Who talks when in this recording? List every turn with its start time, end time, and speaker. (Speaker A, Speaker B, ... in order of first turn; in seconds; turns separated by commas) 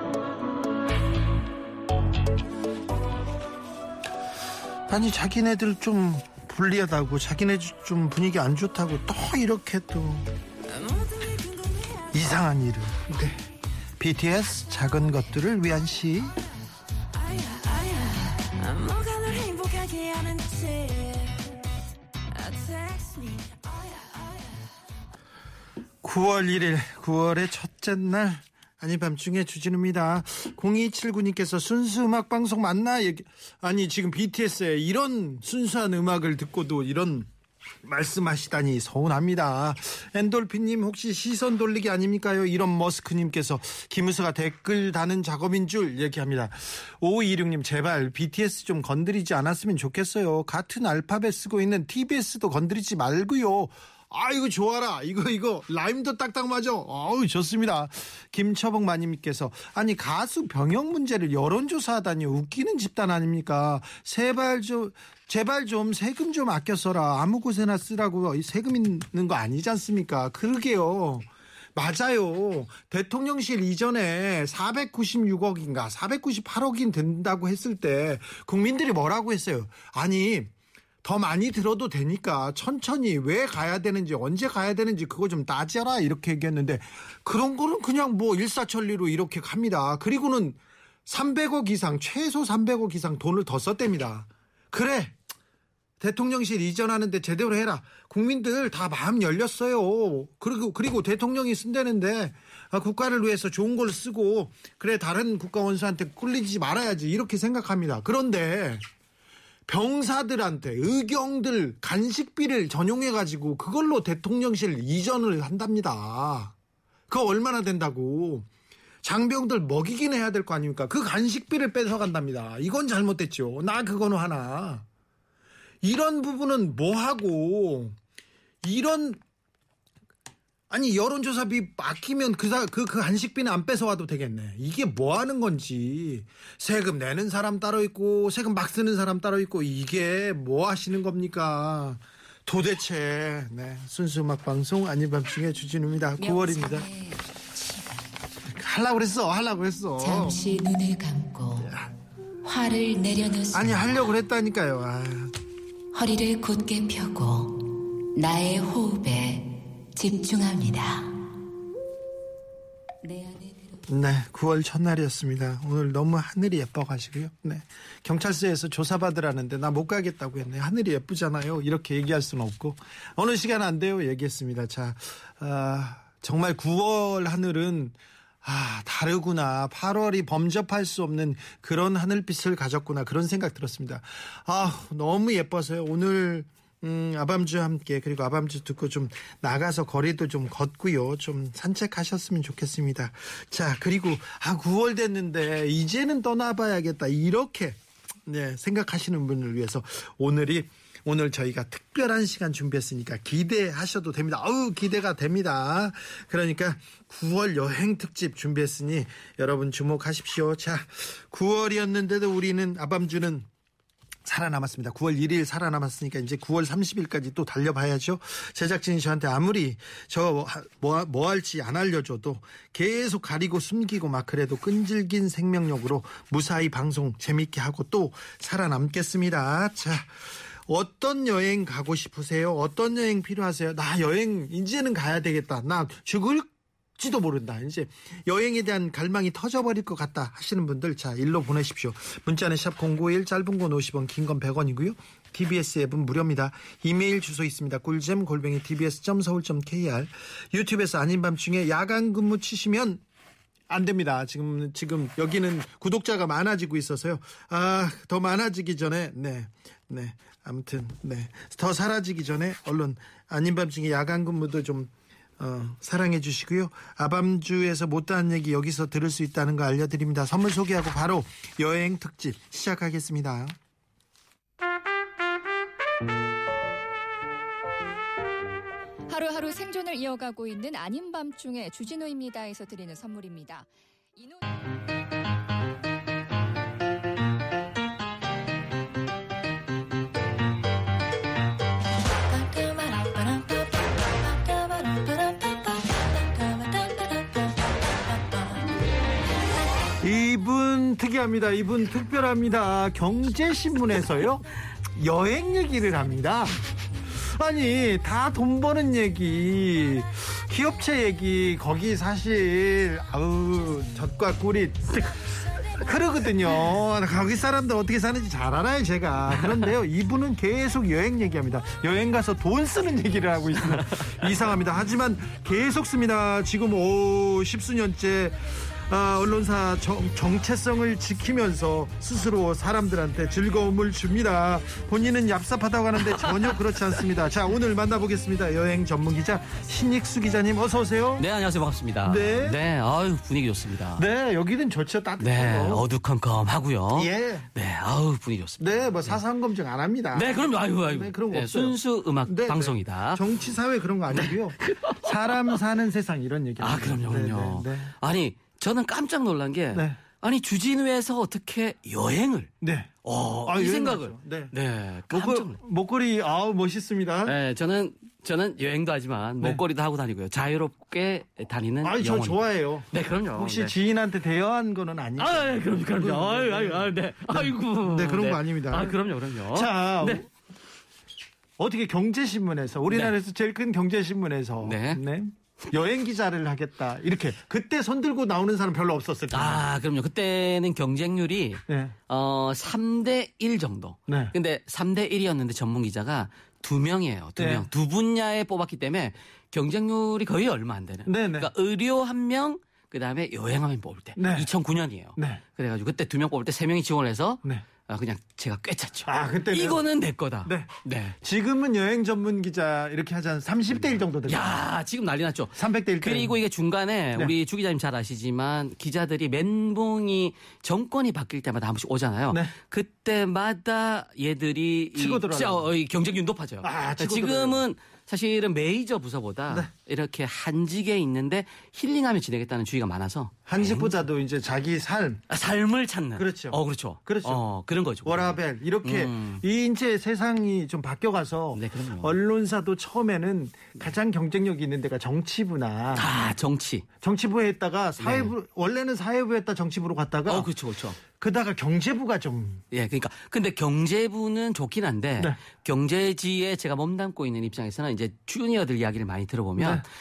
Speaker A: 4.9-10.3, Speaker B: 10.7-12.2, Speaker A: 12.1-13.4, Speaker A: 14.0-16.4, Speaker B: 17.2-21.6, Speaker B: 22.3-24.6, Speaker A: 26.0-37.3, Speaker A: 37.9-80.5, Speaker A: 81.0-95.2, Speaker A: 96.0-108.8, Speaker A: 109.7-116.5, Speaker A: 117.1-118.5, Speaker A: 119.0-124.8, Speaker A: 125.8-128.0, Speaker A: 128.6-129.2, Speaker A: 130.7-146.9, Speaker C: 146.2-148.1, Speaker A: 148.5-150.4, Speaker C: 150.0-151.7, Speaker A: 151.6-151.9, Speaker C: 152.4-154.0, Speaker A: 153.5-155.3, Speaker C: 155.9-161.3, Speaker C: 163.0-163.9, Speaker A: 163.9-213.5, Speaker A: 214.3-253.0, Speaker A: 253.7-273.6, Speaker D: 279.1-284.4, Speaker B: 292.3-293.8, Speaker B: 294.3-297.5, Speaker A: 300.0-315.2, Speaker A: 315.8-341.2, Speaker E: 336.0-336.5, Speaker E: 341.2-344.1, Speaker A: 342.1-342.6, Speaker A: 344.0-345.9, Speaker E: 345.2-349.2, Speaker A: 347.0-347.5, Speaker A: 348.6-357.9, Speaker E: 350.1-353.2, Speaker E: 354.1-355.6, Speaker E: 356.6-362.5, Speaker A: 359.7-360.0, Speaker A: 362.6-362.9, Speaker E: 363.0-365.6, Speaker A: 363.4-364.5, Speaker A: 365.1-367.4, Speaker E: 367.2-373.7, Speaker A: 371.8-380.3, Speaker E: 375.2-380.2, Speaker A: 381.6-389.7, Speaker E: 382.9-383.1, Speaker E: 384.6-385.0, Speaker E: 389.3-411.2, Speaker A: 391.7-391.9, Speaker A: 394.1-394.3, Speaker A: 397.4-397.7, Speaker A: 401.1-401.5, Speaker A: 404.2-404.5, Speaker A: 405.2-405.4, Speaker A: 409.1-409.8, Speaker A: 410.4-410.7, Speaker A: 411.2-414.6, Speaker E: 413.8-433.9, Speaker A: 415.6-416.4, Speaker A: 424.9-425.7, Speaker A: 426.6-427.6, Speaker A: 433.5-435.2, Speaker E: 435.3-439.4, Speaker A: 436.2-437.4, Speaker A: 438.0-446.1, Speaker E: 441.5-442.2, Speaker E: 445.9-446.9, Speaker A: 447.0-450.5, Speaker E: 448.0-448.3, Speaker E: 450.3-451.0, Speaker A: 451.2-452.6, Speaker E: 452.7-459.9, Speaker A: 459.6-459.8